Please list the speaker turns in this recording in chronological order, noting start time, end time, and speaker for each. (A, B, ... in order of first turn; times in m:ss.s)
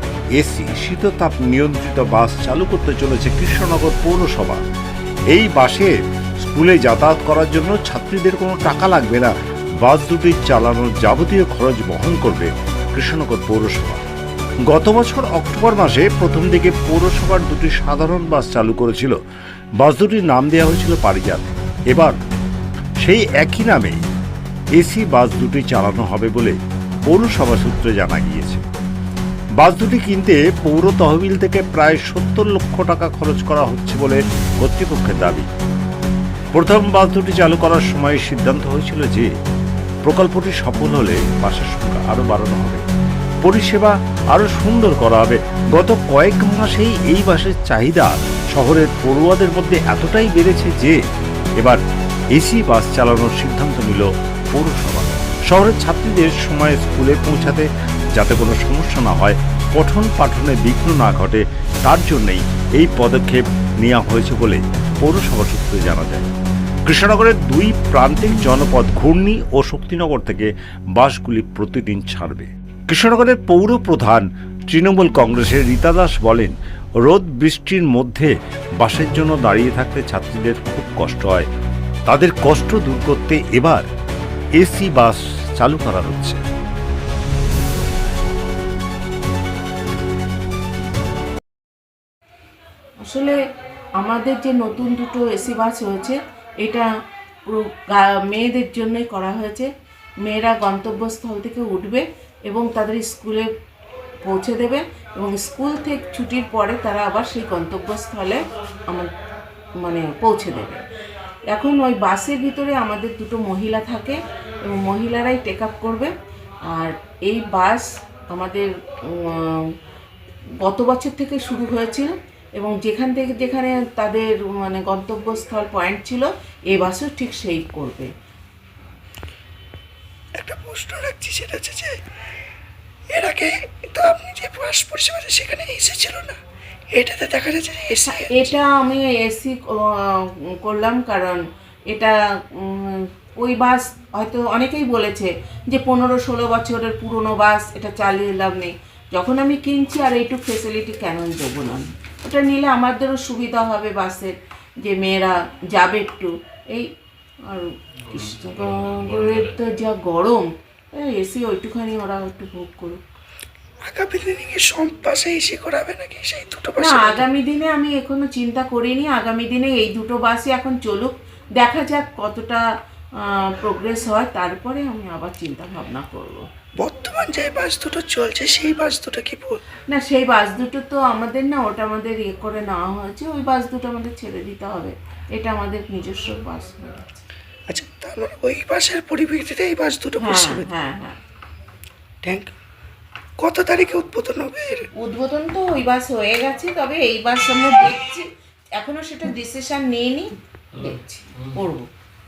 0:00.3-0:04.6 A
0:05.3-0:14.0 A
0:14.7-0:19.2 A
0:19.8-0:22.2 A
0:23.0-0:24.0 A
0:24.8-0:26.6 A
0:27.1-0:28.6 A
0:29.6-0:35.5 A
0:36.5-0:39.3 A
0:40.0-0:42.8 A
0:43.4-0:51.0 A
0:52.3-1:06.3 A
1:06.9-1:21.5 A
1:22.1-1:23.9 A
1:24.6-1:26.4 A
1:33.0-1:33.4 B
1:34.0-1:36.8 B
1:37.4-1:39.7 B
1:40.2-1:43.5 B
1:44.2-1:49.1 B
1:49.8-1:50.8 B
1:51.5-1:56.1 B
1:56.7-1:59.7 B
2:00.6-2:08.1 B
2:10.4-2:12.0 C
2:13.1-2:16.4 C
2:16.9-2:18.5 C
2:18.1-2:36.9 B
2:37.5-2:43.0 B
2:43.8-2:47.2 C
2:46.8-2:52.6 B
2:53.2-2:56.4 B
2:56.8-2:59.6 C
2:59.9-3:07.2 B
3:07.7-3:10.7 C
3:10.2-3:11.2 B
3:12.2-3:12.5 C
3:13.4-3:14.9 C
3:15.0-3:18.2 B
3:18.8-3:21.9 B